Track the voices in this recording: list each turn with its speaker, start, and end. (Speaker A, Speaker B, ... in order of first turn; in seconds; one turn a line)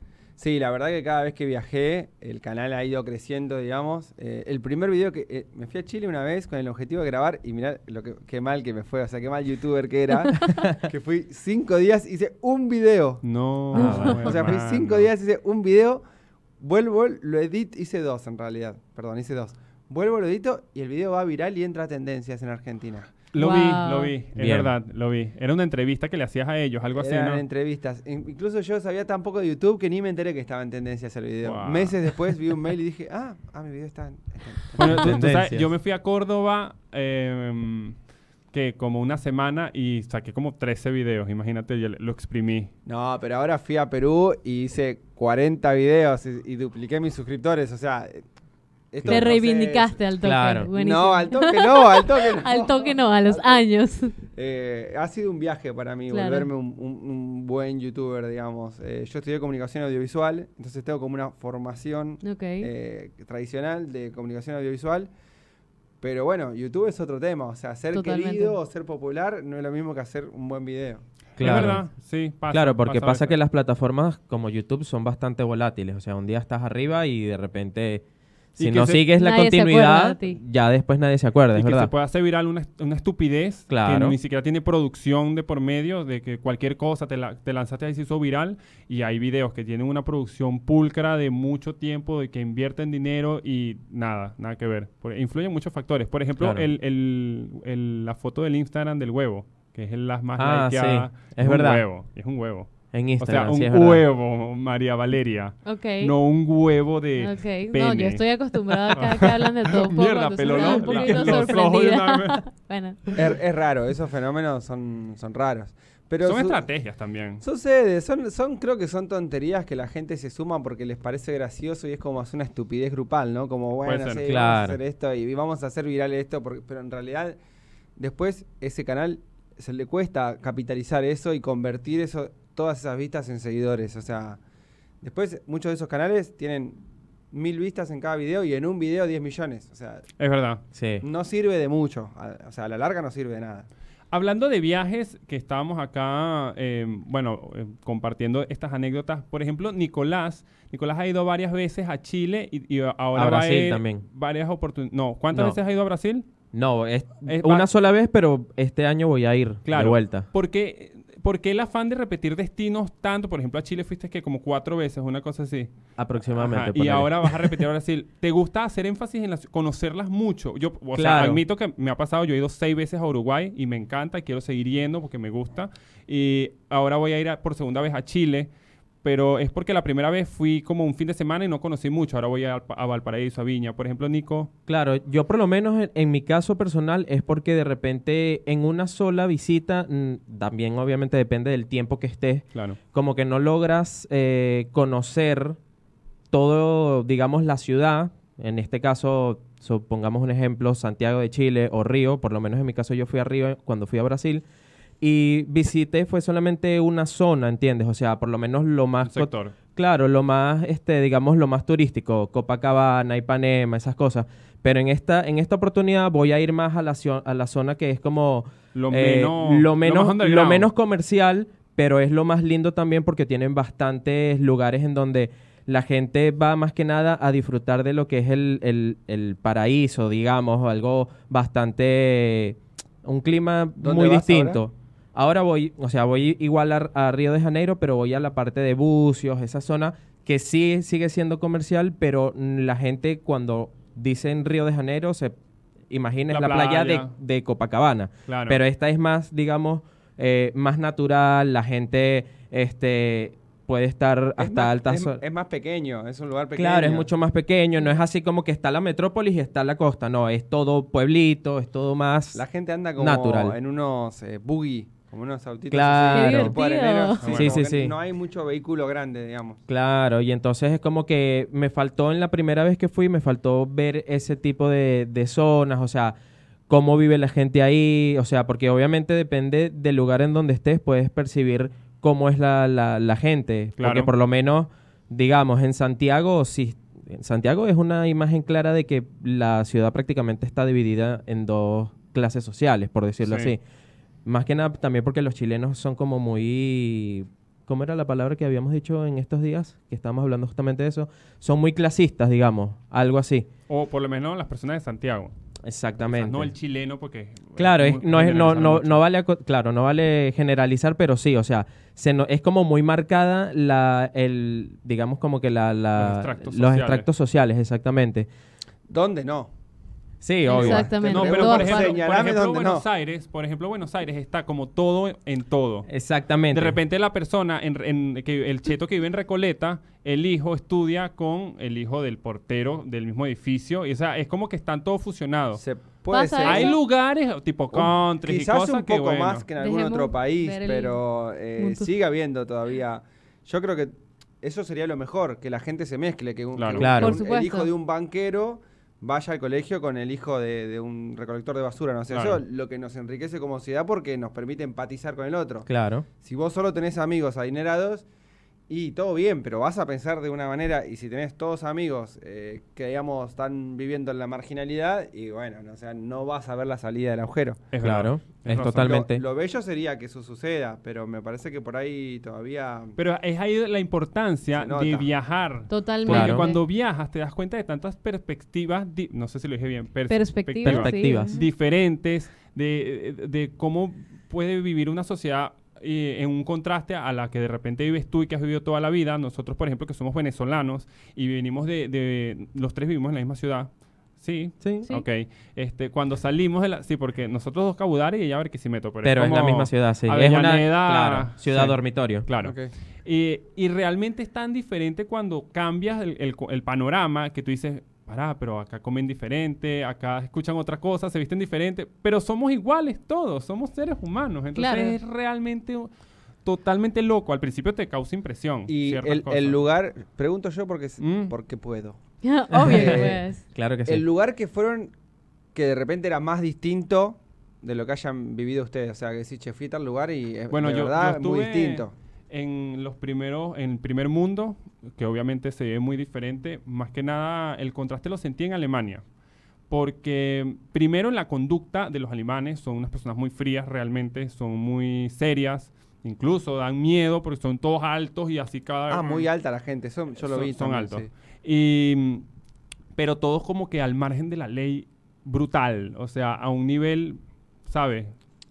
Speaker A: 0.4-13.2
Speaker B: 10.4-10.8
Speaker C: 13.2-15.1
Speaker B: 13.7-14.3
Speaker D: 13.8-14.3
Speaker A: 14.0-16.0
Speaker A: 16.6-23.2
Speaker C: 23.3-27.4
Speaker D: 23.4-24.1
Speaker B: 24.4-24.7
Speaker A: 26.9-35.2
Speaker C: 31.4-32.1
Speaker C: 34.8-38.0
Speaker B: 34.8-35.7
Speaker C: 38.5-42.7
Speaker A: 42.9-48.2
Speaker A: 48.9-50.0
Speaker D: 49.1-54.1
Speaker B: 50.2-50.7
Speaker A: 50.7-53.5
Speaker A: 54.3-65.1
Speaker D: 56.1-56.5
Speaker D: 62.2-62.7
Speaker A: 66.0-71.7
Speaker D: 67.9-68.6
Speaker B: 71.4-71.8
Speaker C: 71.4-73.4
Speaker B: 72.5-78.0
Speaker C: 78.6-79.1
Speaker B: 78.6-81.9
Speaker D: 79.1-80.4
Speaker C: 81.5-108.2
Speaker B: 83.7-84.2
Speaker B: 96.4-96.7
Speaker B: 100.4-101.8
Speaker B: 102.9-104.0
Speaker D: 105.7-106.1
Speaker D: 107.2-113.0
Speaker C: 108.8-112.4
Speaker A: 113.1-116.7
Speaker C: 116.2-117.4
Speaker A: 117.4-127.4
Speaker C: 123.8-124.5
Speaker B: 124.2-124.8
Speaker A: 128.0-134.4
Speaker A: 135.0-136.8
Speaker A: 137.3-140.1
Speaker C: 140.2-140.6
Speaker B: 140.7-141.1
Speaker A: 141.0-143.7
Speaker C: 144.1-156.3
Speaker B: 153.2-154.0
Speaker B: 156.5-160.3
Speaker C: 157.3-157.7
Speaker C: 159.7-165.7
Speaker B: 166.0-167.6
Speaker C: 166.3-178.5
Speaker B: 170.9-171.4
Speaker C: 179.0-184.5
Speaker B: 184.7-195.6
Speaker C: 192.5-192.8
Speaker B: 196.3-204.4
Speaker B: 205.0-245.4
Speaker C: 209.0-209.6
Speaker C: 218.7-220.7
Speaker A: 233.8-234.6
Speaker B: 245.9-255.2
Speaker C: 246.3-247.1
Speaker C: 248.3-248.6
Speaker A: 254.4-257.1
Speaker B: 256.6-262.4
Speaker A: 262.3-269.6
Speaker B: 263.0-263.6
Speaker B: 265.7-266.6
Speaker D: 266.1-267.3
Speaker C: 267.2-267.6
Speaker B: 267.3-267.9
Speaker B: 269.7-276.2
Speaker B: 276.7-293.6
Speaker C: 283.8-284.1
Speaker C: 293.2-293.6
Speaker B: 294.2-303.5
Speaker C: 303.7-305.3
Speaker B: 305.6-306.5
Speaker C: 306.1-309.0
Speaker B: 307.6-318.3
Speaker C: 316.0-317.1
Speaker A: 318.9-319.5
Speaker B: 320.2-320.9
Speaker D: 320.4-322.0
Speaker A: 320.5-322.8
Speaker C: 321.0-325.9
Speaker B: 325.9-326.8
Speaker C: 326.5-335.6
Speaker A: 335.6-336.8
Speaker D: 336.1-336.8
Speaker C: 336.4-339.4
Speaker A: 337.7-355.7
Speaker D: 339.6-341.0
Speaker D: 341.6-341.9
Speaker C: 346.6-346.9
Speaker B: 346.8-347.2
Speaker D: 347.0-347.7
Speaker C: 352.1-352.4
Speaker B: 355.7-356.1
Speaker A: 356.2-358.1
Speaker A: 358.7-367.6
Speaker C: 367.7-369.0
Speaker B: 367.8-369.2
Speaker A: 368.8-373.0
Speaker C: 373.0-415.9
Speaker A: 374.6-375.1
Speaker D: 375.7-376.6
Speaker B: 376.1-376.5
Speaker D: 380.1-381.4
Speaker B: 380.6-381.4
Speaker B: 394.6-394.9
Speaker B: 399.0-402.3
Speaker A: 402.4-402.7
Speaker D: 414.6-415.0
Speaker C: 416.4-419.6
Speaker A: 418.7-422.0
Speaker C: 421.0-421.3
Speaker D: 422.2-423.4
Speaker B: 422.5-424.1
Speaker A: 422.7-423.2
Speaker A: 423.9-424.9
Speaker A: 425.6-431.9
Speaker C: 430.5-439.0
Speaker C: 439.7-449.3
Speaker A: 448.9-451.1
Speaker C: 450.2-452.2
Speaker C: 452.9-458.1